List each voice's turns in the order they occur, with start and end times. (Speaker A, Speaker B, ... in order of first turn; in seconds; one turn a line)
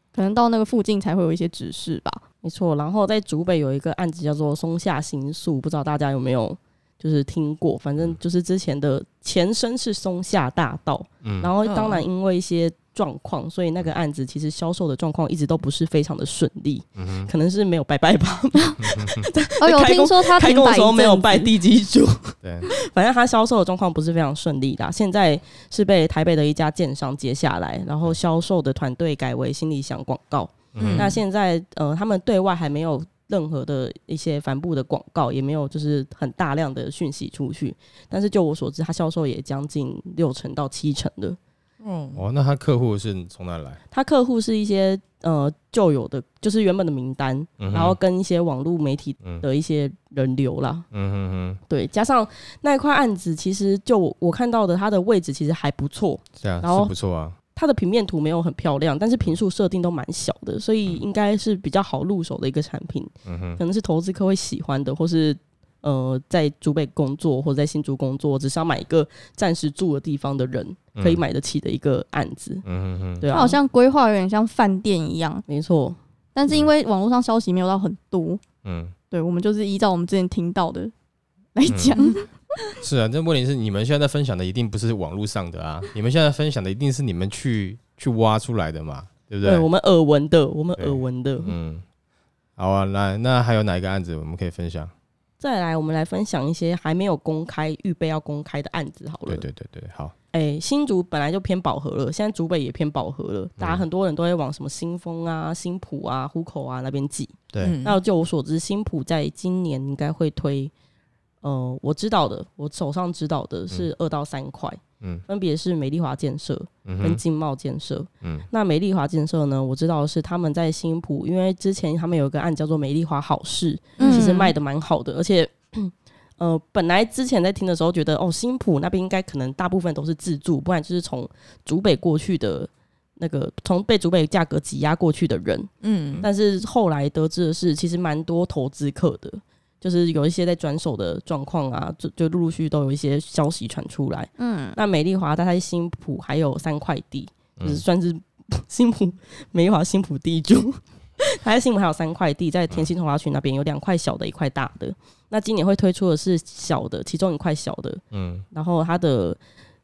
Speaker A: 0.1-2.2
Speaker B: 2.4-41.4
Speaker C: 11.2-11.5
Speaker D: 11.7-12.0
Speaker C: 17.0-17.3
Speaker C: 18.8-19.2
Speaker A: 19.6-21.5
Speaker C: 22.4-22.7
Speaker C: 30.8-31.2
Speaker D: 30.8-31.1
Speaker D: 41.8-42.2
Speaker C: 42.1-43.8
Speaker B: 43.9-50.9
Speaker C: 47.6-48.0
Speaker C: 50.9-51.6
Speaker B: 51.7-56.9
Speaker C: 56.4-57.4
Speaker B: 57.5-72.6
Speaker C: 63.2-63.6
Speaker C: 71.0-71.2
Speaker C: 72.6-73.3
Speaker B: 73.2-73.6
Speaker A: 73.3-75.4
Speaker B: 75.5-76.0
Speaker A: 76.3-78.4
Speaker C: 78.6-79.0
Speaker A: 79.1-80.9
Speaker A: 81.5-82.7
Speaker C: 81.7-81.9
Speaker C: 82.8-89.7
Speaker B: 89.4-91.5
Speaker C: 90.8-91.8
Speaker C: 92.6-94.9
Speaker B: 95.4-99.5
Speaker C: 99.3-100.1
Speaker B: 100.3-110.7
Speaker C: 103.6-103.8
Speaker D: 107.6-108.0
Speaker B: 111.4-135.7
Speaker C: 116.8-117.2
Speaker C: 118.2-118.5
Speaker A: 124.0-124.5
Speaker D: 135.8-136.2
Speaker B: 136.2-158.0
Speaker A: 144.4-144.8
Speaker C: 147.6-147.8
Speaker C: 158.1-158.5
Speaker B: 158.5-159.4